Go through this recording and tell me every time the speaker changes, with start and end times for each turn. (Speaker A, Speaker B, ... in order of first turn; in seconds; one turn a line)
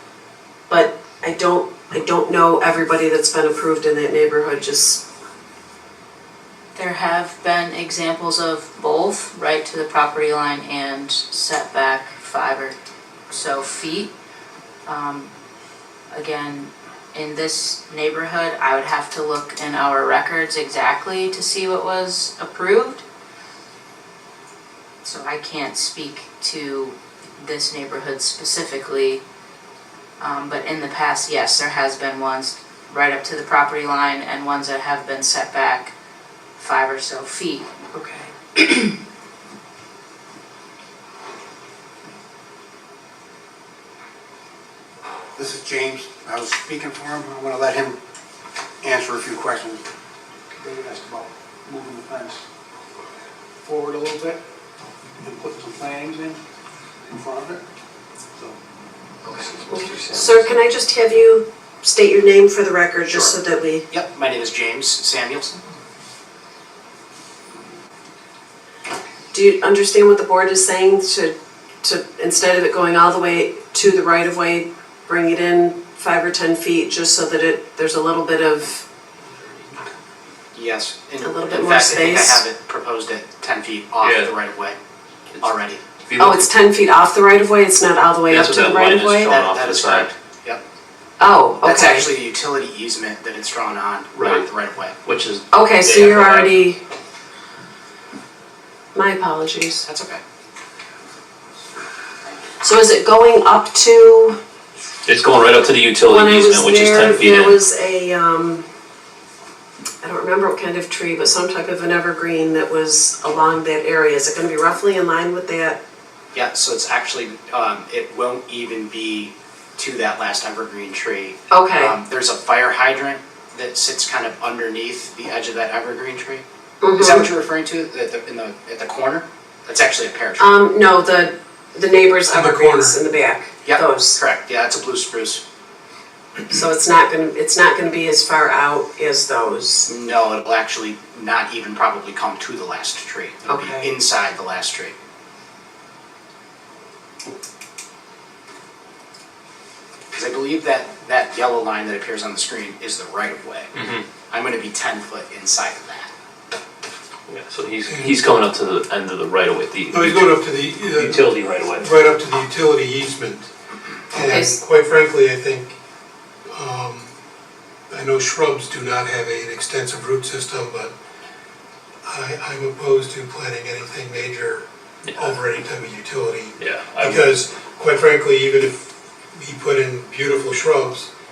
Speaker A: 0.7-5.0
Speaker B: 6.7-12.7
Speaker B: 13.3-14.1
Speaker B: 14.8-15.3
Speaker B: 16.1-23.0
Speaker B: 25.0-29.2
Speaker B: 30.2-35.9
Speaker B: 36.6-37.7
Speaker B: 38.5-38.9
Speaker C: 45.4-48.0
Speaker C: 48.8-49.8
Speaker C: 50.5-52.4
Speaker C: 53.6-54.4
Speaker C: 55.2-56.4
Speaker C: 57.0-57.6
Speaker A: 59.7-63.9
Speaker D: 63.0-63.4
Speaker D: 63.9-65.6
Speaker A: 69.3-78.8
Speaker D: 80.5-84.8
Speaker A: 81.2-82.4
Speaker E: 84.0-84.3
Speaker D: 85.4-85.8
Speaker E: 86.0-86.5
Speaker A: 86.2-89.3
Speaker E: 88.3-90.1
Speaker D: 89.3-90.6
Speaker A: 91.2-92.1
Speaker D: 91.6-95.0
Speaker E: 94.1-94.5
Speaker E: 95.0-96.5
Speaker A: 95.5-96.8
Speaker A: 98.9-99.8
Speaker D: 99.8-100.2
Speaker A: 102.6-104.4
Speaker E: 105.0-107.6
Speaker A: 106.0-108.6
Speaker A: 110.0-115.8
Speaker D: 116.3-126.4
Speaker A: 121.5-122.0
Speaker A: 126.8-127.2
Speaker D: 127.0-130.5
Speaker A: 130.4-134.2
Speaker F: 132.3-133.0
Speaker D: 133.6-135.4
Speaker A: 136.5-139.9
Speaker D: 139.8-144.9
Speaker A: 143.5-143.9
Speaker D: 150.1-153.7
Speaker E: 153.7-154.0
Speaker D: 154.3-156.1
Speaker E: 157.3-161.9
Speaker F: 157.9-158.1
Speaker F: 159.9-163.5
Speaker F: 164.1-165.8
Speaker A: 164.2-164.6
Speaker F: 166.5-167.1
Speaker F: 167.9-170.9
Speaker F: 172.1-181.1
Speaker E: 175.1-175.3
Speaker E: 176.6-177.3